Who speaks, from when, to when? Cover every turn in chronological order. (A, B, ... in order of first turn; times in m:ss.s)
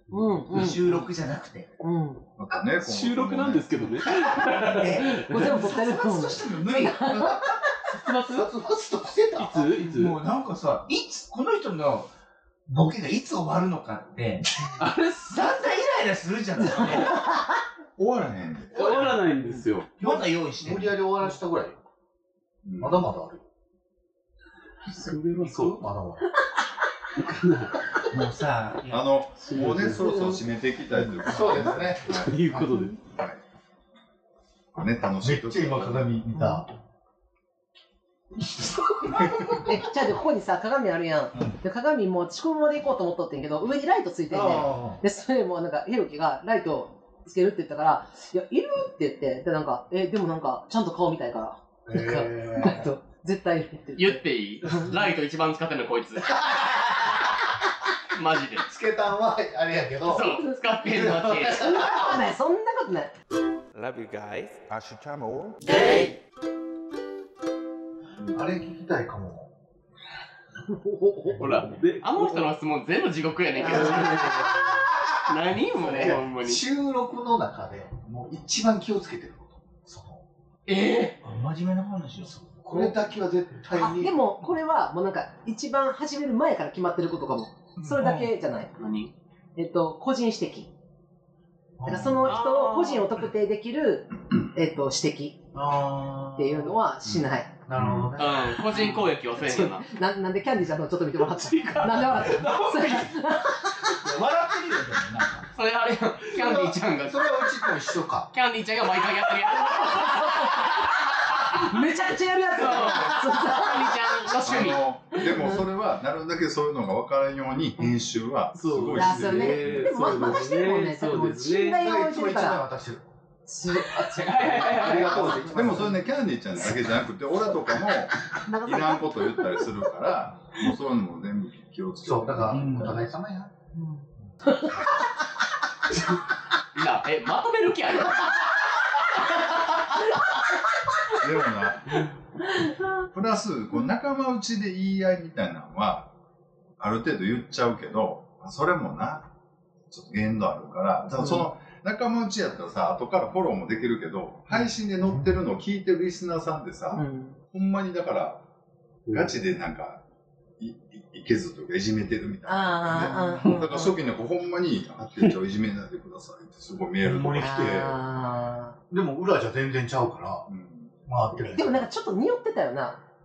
0:00.1-0:00.9 A
0:00.1-0:01.1 B
0:00.5-0:01.7 C
0:01.8-0:02.2 A
0:02.4-0:03.8 D
0:02.7-0:05.6 B
0:04.2-0:07.5 C
0:05.2-0:07.4 A
0:07.9-0:08.5 B
0:08.2-0:09.7 E
0:09.4-0:10.2 B
0:09.9-0:12.1 C
0:12.7-0:14.5 C
0:14.8-0:15.6 B
0:15.2-0:17.2 C
0:18.0-0:19.2 D
0:18.7-0:19.9 B
0:18.8-0:19.2 E
0:20.0-0:20.9 C
0:20.0-0:21.8 E
0:22.6-0:23.1 D
0:22.8-0:23.4 E
0:24.9-0:25.8 B
0:25.3-0:26.3 E
0:27.3-0:27.8 B
0:28.1-0:29.1 C
0:28.9-0:32.4 D
0:29.4-0:30.2 B
0:29.9-0:30.4 A
0:30.9-0:33.0 B
0:31.2-0:32.8 E
0:33.0-0:33.4 D
0:34.8-0:36.2 D
0:35.2-0:36.7 E
0:36.4-0:36.6 A
0:39.0-0:39.7 E
0:39.5-0:54.9 A
0:44.3-0:45.0 E
0:51.9-0:52.9 E
0:54.0-0:56.5 F
0:58.1-0:58.6 F
0:58.6-1:02.2 E
1:00.1-1:01.9 F
1:00.2-1:00.8 A
1:01.4-1:03.1 A
1:03.7-1:05.8 G
1:08.3-1:09.5 E
1:10.8-1:11.4 A
1:11.3-1:12.5 B
1:12.0-1:16.6 F
1:13.6-1:14.6 A
1:15.8-1:20.2 E
1:20.7-1:21.2 F
1:21.2-1:22.3 C
1:22.2-1:24.2 E
1:23.8-1:28.7 A
1:28.0-1:28.2 E
1:28.8-1:29.1 F
1:29.6-1:30.7 A
1:31.8-1:32.4 E
1:31.8-1:35.4 A
1:32.3-1:33.1 F
1:35.5-1:36.8 E
1:36.4-1:37.5 A
1:37.0-1:38.1 D
1:37.7-1:39.1 E
1:38.2-1:39.8 F
1:39.3-1:44.0 A
1:41.3-1:43.0 B
1:44.0-1:45.5 C
1:45.6-1:47.7 F
1:46.3-1:48.3 E
1:48.3-1:51.6 F
1:49.8-1:50.9 A
1:51.5-1:54.3 A
1:52.5-1:54.8 F
1:54.4-2:00.3 D
1:55.1-1:55.6 A
1:58.5-2:01.8 B
1:59.0-2:02.6 A
2:01.8-2:03.0 E
2:03.5-2:06.0 A
2:03.9-2:05.4 B
2:04.5-2:06.0 E
2:05.4-2:12.9 D
2:08.5-2:09.2 A
2:12.0-2:13.5 E
2:12.5-2:13.0 C
2:13.8-2:14.7 A
2:16.8-2:18.4 F
2:19.2-2:19.7 F
2:21.1-2:22.1 D
2:23.1-2:26.1 D
2:26.8-2:29.3 D
2:29.9-2:38.4 D
2:31.2-2:31.4 A
2:37.0-2:37.4 A
2:39.1-2:39.4 B
2:39.1-2:40.0 D
2:40.6-2:48.0 D
2:42.5-2:44.0 A
2:47.0-2:47.8 E
2:47.4-2:48.8 A
2:48.9-2:50.5 E
2:50.5-2:51.0 D
2:51.0-2:51.9 E
2:51.5-2:53.0 A